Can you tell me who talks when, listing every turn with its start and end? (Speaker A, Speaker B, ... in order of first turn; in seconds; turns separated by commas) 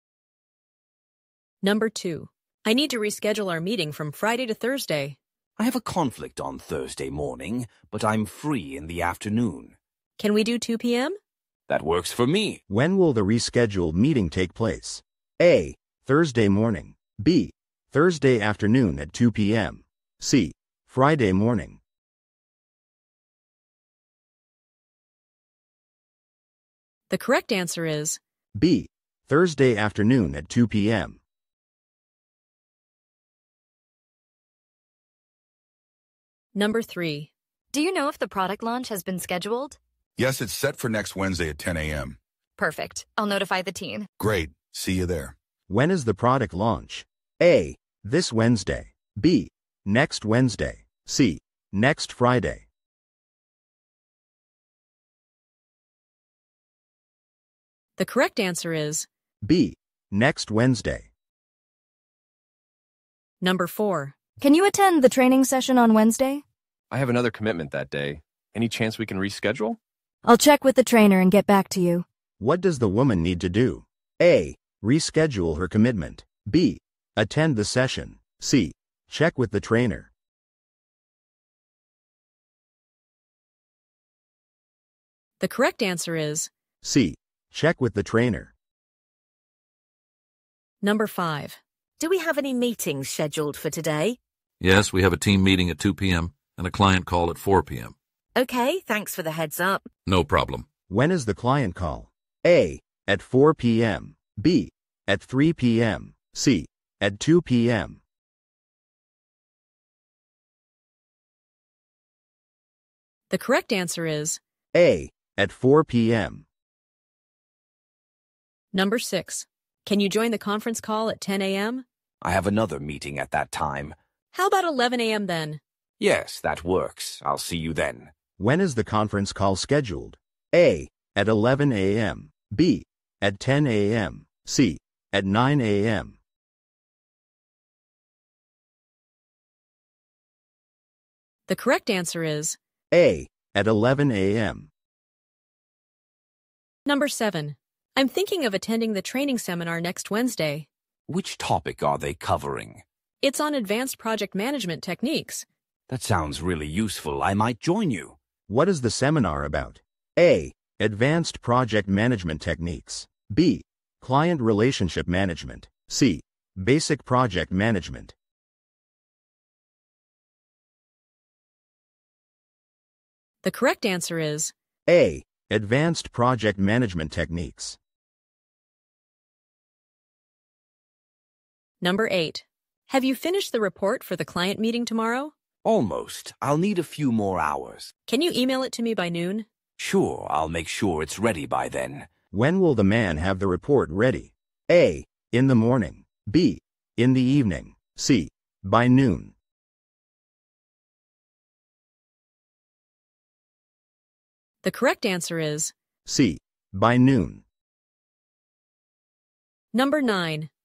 Speaker A: 1.6-5.2, Speaker B: 5.6-9.8, Speaker A: 10.2-11.2, Speaker B: 11.7-12.6, Speaker C: 12.7-21.8, Speaker A: 27.1-28.2, Speaker C: 28.5-31.2, Speaker A: 36.5-37.3, Speaker D: 37.7-39.8, Speaker E: 40.2-42.2, Speaker D: 42.6-44.1, Speaker E: 44.2-45.3, Speaker C: 45.7-52.6, Speaker A: 58.0-59.1, Speaker C: 59.4-61.1, Speaker A: 63.4-64.1, Speaker F: 64.4-66.4, Speaker G: 66.9-69.8, Speaker F: 70.2-72.0, Speaker C: 72.4-80.1, Speaker A: 85.4-86.5, Speaker C: 86.8-88.5, Speaker A: 90.8-91.6, Speaker H: 92.0-94.2, Speaker I: 94.6-97.9, Speaker H: 98.3-99.8, Speaker I: 100.0-100.7, Speaker C: 100.9-108.0, Speaker A: 113.3-114.4, Speaker C: 114.7-116.5, Speaker A: 118.7-121.8, Speaker B: 122.2-124.0, Speaker A: 124.3-125.6, Speaker B: 126.0-128.1, Speaker C: 128.4-136.2, Speaker A: 141.5-142.6, Speaker C: 142.9-144.7, Speaker A: 146.8-150.7, Speaker B: 151.1-152.8, Speaker A: 153.2-155.4, Speaker B: 155.9-158.2, Speaker C: 158.5-168.1, Speaker A: 173.4-174.5, Speaker C: 174.9-177.8, Speaker A: 181.8-185.3, Speaker B: 185.6-187.9, Speaker A: 188.1-189.5, Speaker B: 189.8-192.1, Speaker C: 192.3-199.3, Speaker A: 204.6-205.7, Speaker C: 206.1-207.4, Speaker A: 209.7-210.5